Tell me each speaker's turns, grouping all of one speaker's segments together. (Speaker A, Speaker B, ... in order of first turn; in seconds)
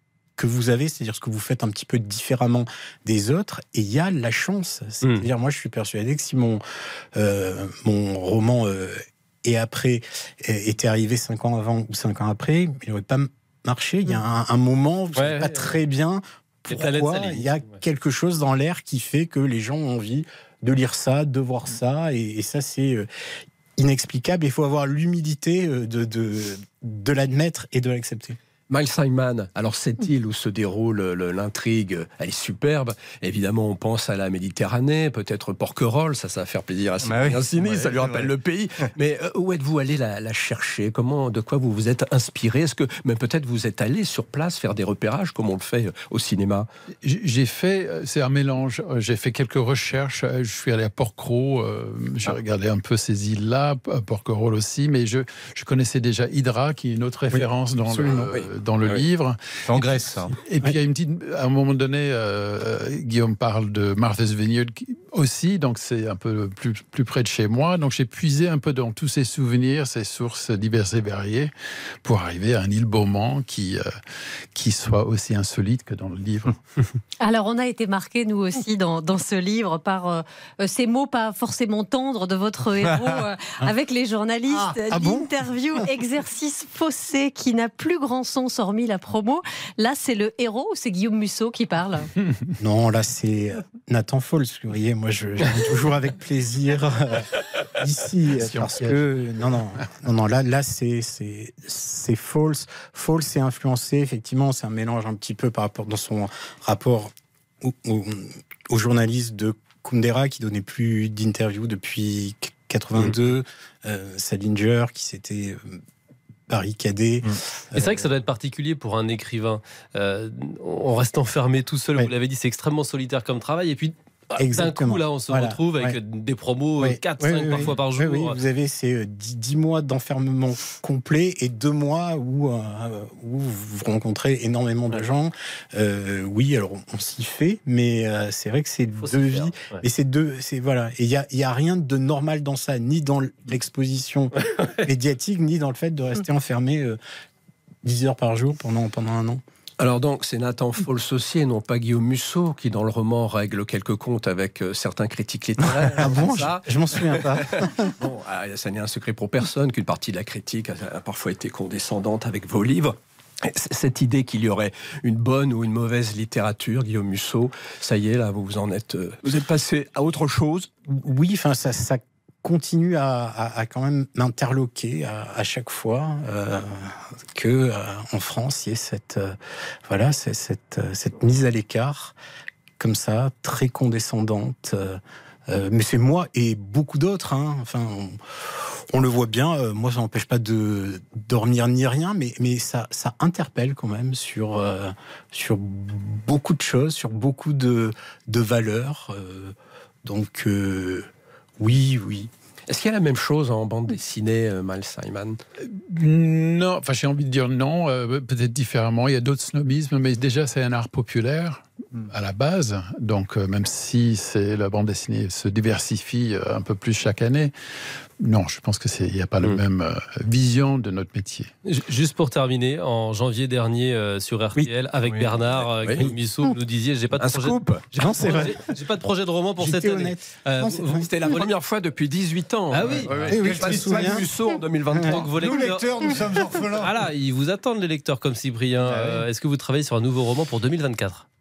Speaker A: 0.4-6.6, 7.2-23.1, 23.8-28.4, 57.3-58.2, 84.9-85.3, 92.6-107.1, 107.6-115.8, 116.5-118.1, 124.4-126.0, 126.8-147.0, 147.8-149.4, 156.0-157.9, 170.9-182.2, 182.8-188.2, 188.9-199.5, 200.0-201.1, 201.6-202.3, 227.9-228.7, 229.6-231.1, 233.3-234.3, 234.9-235.2
Speaker B: 15.2-15.8, 16.7-17.8, 117.8-128.4, 139.0-139.8, 221.7-231.5, 232.7-233.2, 235.1-236.2, 236.8-241.3
Speaker C: 28.7-46.7, 58.1-59.0, 149.8-170.7, 202.7-205.4, 225.0-226.1, 227.2-227.8, 231.0-235.4
Speaker D: 37.0-38.4, 59.7-60.3, 84.5-84.8, 233.3-234.5, 235.4-236.9
Speaker E: 47.0-71.5, 72.0-73.8, 74.5-76.6, 98.4-99.0, 205.7-217.5, 218.2-221.5
Speaker F: 77.2-92.1